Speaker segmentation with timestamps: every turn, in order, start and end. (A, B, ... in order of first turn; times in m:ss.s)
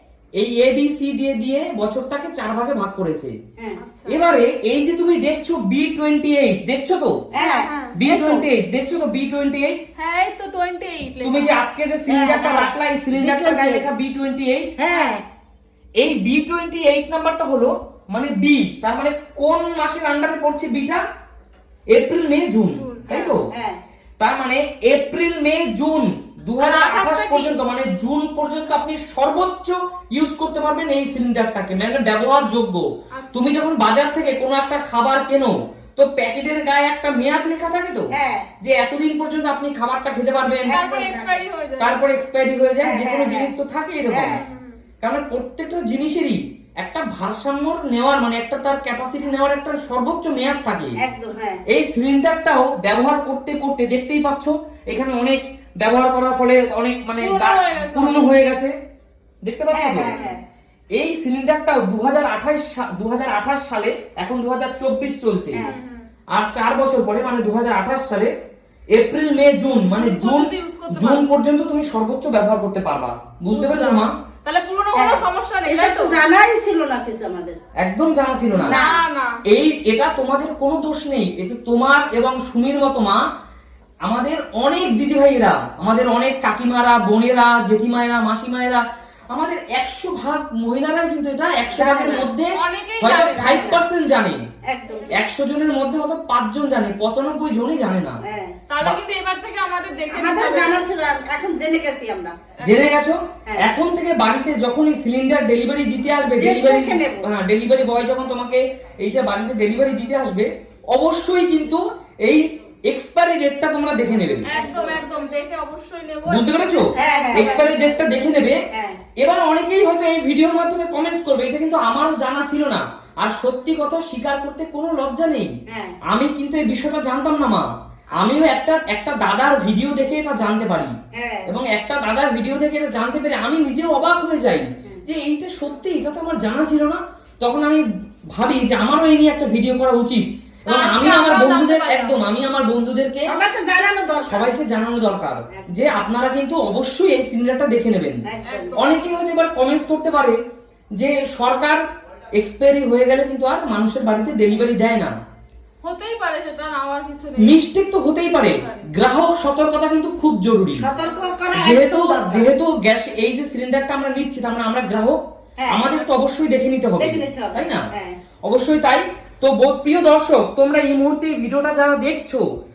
0:00.4-0:03.3 A
0:03.8-0:04.2 B
0:04.0-0:07.1 A
0:07.3-0:08.4 C
0:07.3-0:08.0 B
0:08.0-0:09.8 A
0:10.0-0:11.6 B
0:11.2-0:14.7 A
0:12.1-0:13.9 C
0:14.8-0:15.2 C
0:16.0-0:21.0 A
0:21.9-0:23.4 A
0:22.8-0:23.2 B
0:23.1-0:23.8 C
0:24.2-0:38.1 A
0:26.6-0:27.6 B
0:33.1-0:33.6 B
0:38.1-0:38.5 C
0:38.6-0:40.8 A
0:40.6-0:41.4 C
0:40.7-0:42.2 B
0:41.8-0:44.4 A
0:42.8-0:43.5 C
0:44.1-0:44.4 C
0:44.3-0:44.8 B
0:45.0-0:51.0 A
0:51.0-0:51.6 C
0:51.7-0:58.7 A
0:57.2-0:58.3 B
0:59.4-1:00.2 A
0:59.7-1:00.4 C
1:00.0-1:00.4 B
1:01.0-1:05.6 A
1:05.5-1:05.8 C
1:05.6-1:06.0 B
1:06.3-1:08.3 A
1:08.9-1:14.1 A
1:09.9-1:11.2 B
1:13.5-1:16.2 B
1:14.9-1:17.6 C
1:17.8-1:18.8 A
1:18.6-1:19.3 B
1:18.7-1:19.0 C
1:19.5-1:23.2 A
1:24.0-1:34.4 A
1:31.7-1:32.3 C
1:32.5-1:33.7 B
1:33.3-1:33.8 C
1:34.7-1:35.2 C
1:35.1-1:38.2 A
1:38.2-1:38.5 C
1:38.7-1:40.8 B
1:40.1-1:42.3 C
1:42.6-1:54.5 A
1:42.6-1:42.9 B
1:43.5-1:43.7 C
1:46.4-1:47.3 C
1:54.4-1:58.0 B
1:54.5-1:55.0 C
1:56.3-1:58.6 A
1:56.9-1:57.7 C
1:58.7-1:59.0 C
1:59.2-2:05.5 A
2:05.7-2:06.0 C
2:06.1-2:10.9 A
2:08.2-2:08.5 B
2:11.1-2:11.5 C
2:11.5-2:23.3 A
2:20.7-2:22.2 B
2:23.3-2:24.5 C
2:24.3-2:28.2 A
2:25.5-2:25.9 C
2:28.3-2:28.7 C
2:28.4-2:29.0 B
2:28.7-2:30.4 A
2:31.0-2:31.8 A
2:32.3-2:35.1 A
2:35.8-2:37.6 B
2:37.4-2:40.9 A
2:38.4-2:38.9 B
2:40.8-2:42.5 C
2:41.0-2:41.4 B
2:41.5-2:47.8 A
2:45.6-2:45.8 C
2:47.0-2:48.2 C
2:48.4-2:52.4 A